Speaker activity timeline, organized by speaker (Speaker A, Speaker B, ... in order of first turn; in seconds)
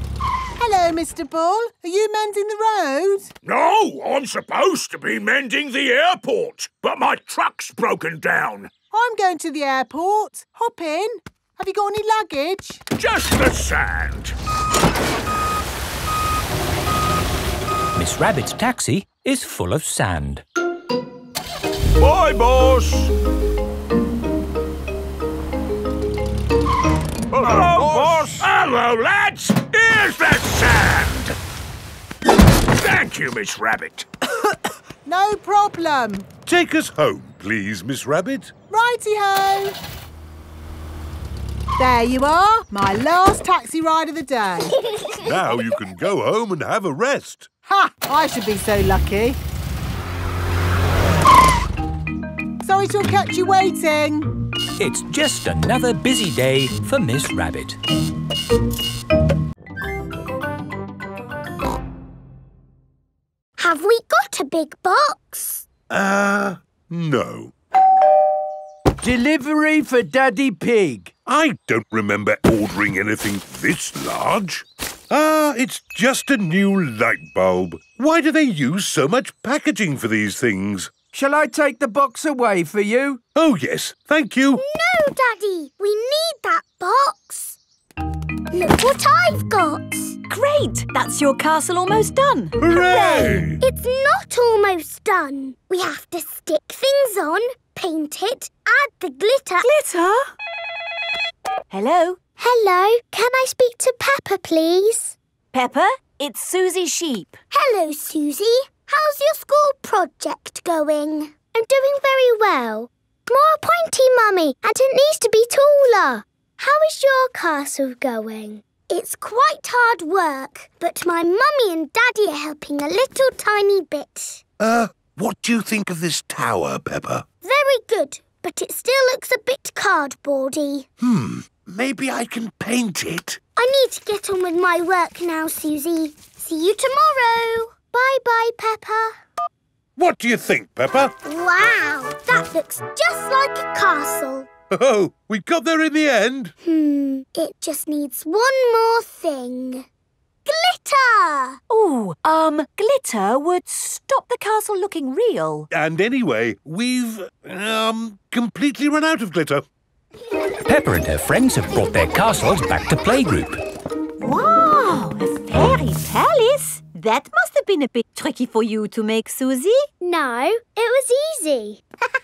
Speaker A: 0.6-3.3, 8.9-12.8, 27.5-28.0, 34.4-36.3, 38.7-39.7, 41.8-44.7, 47.6-49.4, 52.6-54.3
Speaker B: 3.4-8.7, 13.0-14.3, 22.0-23.1, 27.3-31.3, 32.7-34.1
Speaker C: 17.9-20.4, 54.8-57.8, 160.6-163.6
Speaker D: 36.5-38.5, 45.2-47.5, 65.9-67.5, 71.3-80.9, 83.3-84.6, 92.6-93.6, 124.6-127.2, 131.0-133.4, 140.0-141.1, 144.7-146.5, 155.7-159.6
Speaker E: 63.6-65.7, 84.6-87.6, 88.5-90.2, 93.2-99.7, 102.4-105.2, 107.5-124.4, 127.4-130.9, 133.6-139.2, 141.2-144.5, 146.6-149.8, 150.4-151.6, 170.0-171.8
Speaker F: 69.0-71.1, 81.1-83.2
Speaker G: 90.3-92.6, 99.6-100.3, 101.7-102.2, 105.5-107.4, 151.7-155.7, 164.2-169.9